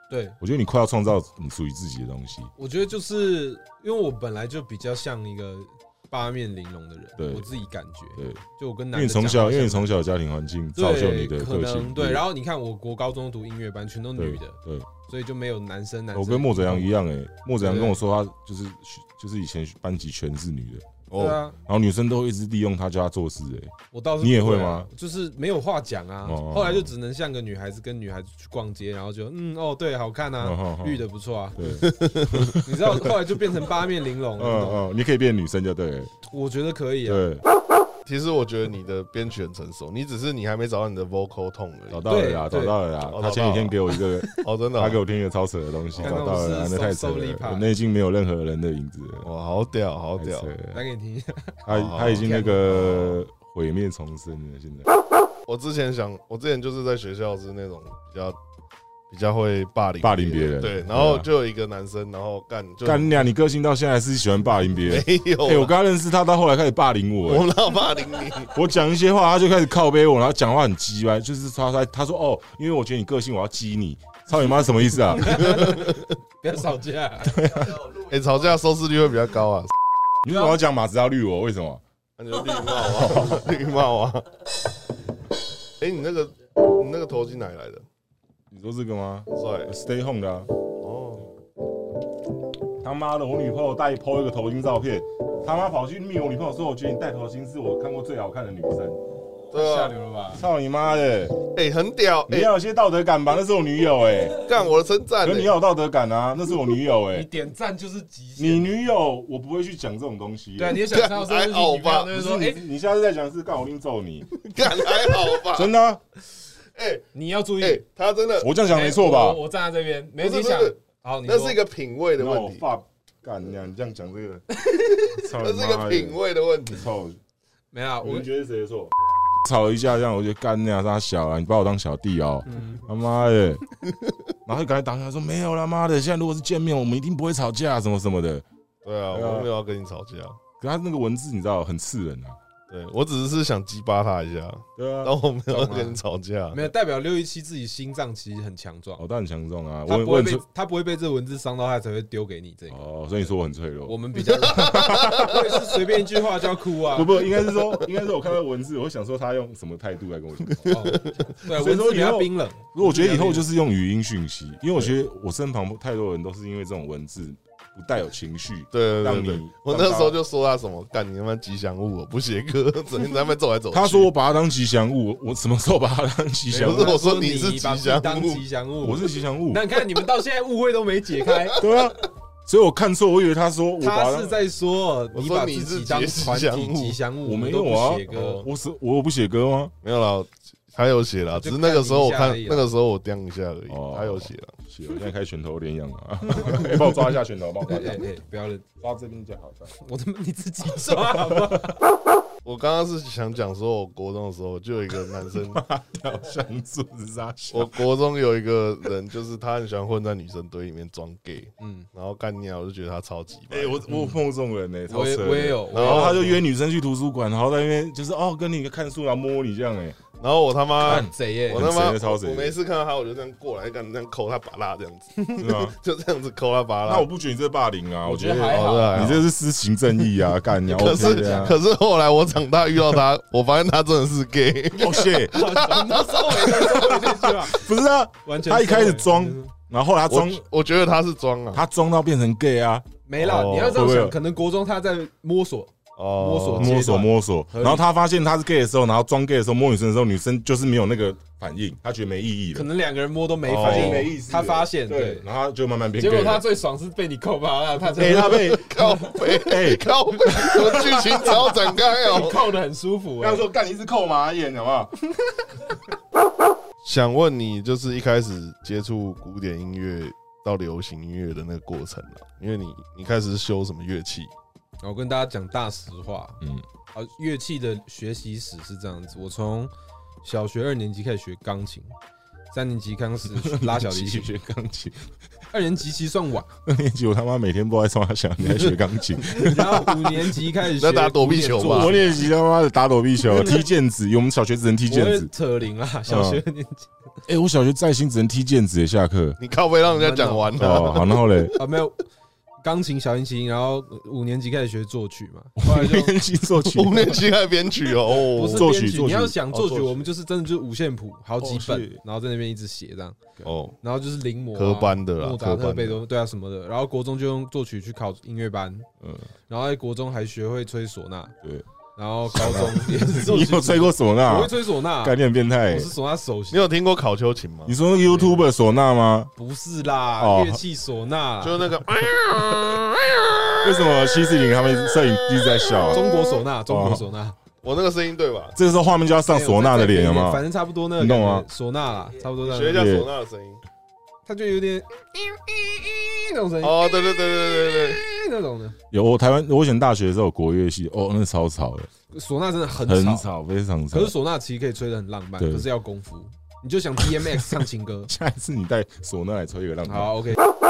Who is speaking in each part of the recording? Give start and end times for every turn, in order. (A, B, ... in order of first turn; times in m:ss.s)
0:00.1-0:00.4 A
0:00.4-0:02.5 B
0:02.6-0:09.9 A
0:07.2-0:07.5 B
0:08.2-0:08.4 B
0:08.9-0:12.2 B
0:10.8-0:14.6 A
0:14.2-0:14.9 B
0:15.1-0:16.9 A
0:16.1-0:20.9 B
0:17.6-0:18.0 A
0:21.1-0:21.4 C
0:21.2-0:21.6 A
0:21.7-0:24.9 B
0:23.9-0:31.8 A
0:26.2-0:26.9 B
0:30.4-0:31.0 B
0:31.6-0:33.1 B
0:31.8-0:32.5 C
0:32.6-0:34.8 A
0:34.4-0:36.1 B
0:36.3-0:37.2 A
0:37.1-0:37.4 B
0:38.0-0:42.1 C
0:41.9-0:49.3 B
0:42.1-0:42.8 A
0:43.1-0:43.8 C
0:44.4-0:45.0 C
0:45.9-0:46.4 C
0:46.0-0:47.7 A
0:49.2-0:50.5 C
0:50.2-0:50.8 B
0:50.7-0:52.8 A
0:51.6-0:54.9 B
0:51.7-0:53.2 C
0:55.5-0:58.4 C
0:59.1-1:03.2 C
1:00.0-1:01.3 B
1:02.8-1:07.5 B
1:04.8-1:05.7 C
1:07.2-1:08.6 C
1:08.5-1:15.7 B
1:15.1-1:17.7 A
1:15.4-1:16.0 C
1:17.4-1:17.9 B
1:17.8-1:19.7 C
1:20.2-1:21.8 B
1:20.3-1:20.6 A
1:22.2-1:24.3 C
1:23.0-1:23.3 B
1:25.8-1:27.8 C
1:28.5-1:30.5 B
1:29.3-1:29.7 C
1:30.8-1:31.3 C
1:32.8-1:39.0 B
1:39.5-1:40.0 C
1:39.5-1:40.4 A
1:40.4-1:41.4 B
1:41.5-1:42.5 C
1:42.3-1:44.5 B
1:44.4-1:45.5 C
1:45.2-1:47.3 B
1:47.1-1:48.7 A
1:48.4-1:50.8 B
1:50.6-1:52.6 A
1:50.8-1:52.1 C
1:52.1-1:54.3 B
1:54.4-1:55.7 C
1:55.5-1:56.0 B
1:56.8-1:57.1 C
1:57.1-1:57.8 A
1:57.6-1:58.5 C
1:58.4-1:59.4 B
1:58.7-2:01.6 A
2:00.2-2:02.6 C
2:02.2-2:04.5 B
2:04.6-2:05.2 A
2:05.0-2:07.2 B
2:05.4-2:06.8 C
2:07.7-2:08.3 A
2:08.0-2:08.9 B
2:09.4-2:13.6 B
2:12.5-2:12.8 A
2:13.9-2:14.2 C
2:14.4-2:18.4 B
2:18.8-2:20.4 C
2:19.1-2:19.5 B
2:20.6-2:22.4 B
2:22.7-2:26.7 C
2:24.8-2:25.1 B
2:25.5-2:26.0 A
2:26.5-2:29.0 A
2:29.0-2:30.4 B
2:29.9-2:32.8 A
2:32.7-2:35.5 B
2:33.9-2:37.2 A
2:34.4-2:35.3 C
2:36.9-2:50.2 B
2:40.7-2:43.4 A
2:48.7-2:54.1 C
2:53.7-2:56.9 B
2:56.5-3:01.6 A
2:56.5-2:58.5 C
2:58.8-2:59.6 B
3:01.6-3:04.4 B
3:03.8-3:08.5 A
3:05.1-3:07.0 C
3:07.2-3:09.7 B
3:08.2-3:08.4 C
3:09.8-3:14.5 C
3:11.3-3:12.6 A
3:13.7-3:18.0 B
3:17.7-3:18.6 A
3:18.8-3:19.7 B
3:19.8-3:21.8 A
3:22.4-3:25.6 C
3:25.5-3:27.7 B
3:27.5-3:33.8 C
3:31.6-3:31.9 A
3:33.5-3:40.0 B
3:34.9-3:36.4 A
3:35.7-3:36.3 C
3:40.2-3:47.1 C
3:40.8-3:41.7 A
3:40.8-3:42.6 B
3:45.2-3:45.5 A
3:45.4-3:45.8 B
3:46.9-3:51.6 B
3:48.0-3:49.2 A
3:48.5-3:49.3 C
3:50.6-3:57.0 C
3:50.8-3:51.5 A
3:54.7-3:55.5 B
3:55.3-3:57.6 A
3:56.5-4:00.4 B
3:58.2-3:59.5 A
4:00.1-4:01.6 C
4:01.5-4:02.9 B
4:03.1-4:07.8 A
4:03.2-4:03.8 C
4:03.6-4:04.2 B
4:06.0-4:06.8 C
4:06.6-4:12.7 B
4:12.5-4:15.3 A
4:13.5-4:14.1 C
4:13.5-4:16.4 B
4:16.0-4:19.3 A
4:18.0-4:18.7 B
4:18.0-4:22.5 C
4:19.4-4:19.9 B
4:20.3-4:23.4 A
4:23.2-4:25.0 B
4:26.8-4:34.3 C
4:34.8-4:36.4 A
4:36.9-4:39.7 A
4:40.2-4:41.9 A
4:42.5-4:44.3 A
4:43.3-4:45.1 B
4:45.5-4:46.5 A
4:46.7-4:50.2 B
4:49.3-4:52.2 A
4:50.7-4:52.0 C
4:51.5-4:55.3 B
4:53.3-4:53.6 A
4:54.9-4:56.9 A
4:56.1-4:56.4 B
4:57.3-4:59.4 B
4:59.4-5:01.6 C
4:59.9-5:00.9 A
5:00.6-5:01.6 B
5:01.6-5:02.0 A
5:02.6-5:06.2 A
5:05.6-5:07.2 B
5:06.6-5:08.7 C
5:08.3-5:18.9 A
5:08.5-5:09.4 B
5:09.5-5:10.1 C
5:11.4-5:12.0 B
5:13.4-5:13.8 C
5:14.5-5:16.0 C
5:19.0-5:19.3 B
5:19.5-5:21.3 A
5:22.0-5:25.2 A
5:22.3-5:25.9 B
5:25.7-5:26.7 A
5:26.5-5:27.8 C
5:27.7-5:29.3 B
5:28.1-5:28.4 A
5:29.4-5:31.8 A
5:30.2-5:30.6 B
5:31.4-5:33.9 C
5:33.6-5:36.1 B
5:35.4-5:36.3 C
5:35.9-5:37.4 A
5:36.7-5:37.0 B
5:37.6-5:38.6 C
5:38.6-5:40.5 B
5:39.3-5:42.9 A
5:41.0-5:41.5 B
5:42.4-5:43.6 C
5:42.7-5:43.1 B
5:44.3-5:48.8 A
5:46.6-5:48.0 C
5:48.9-5:51.9 B
5:52.1-5:53.3 A
5:52.8-5:54.2 B
5:53.9-5:58.1 A
5:55.4-5:55.7 B
5:58.1-6:00.4 B
5:59.9-6:00.4 A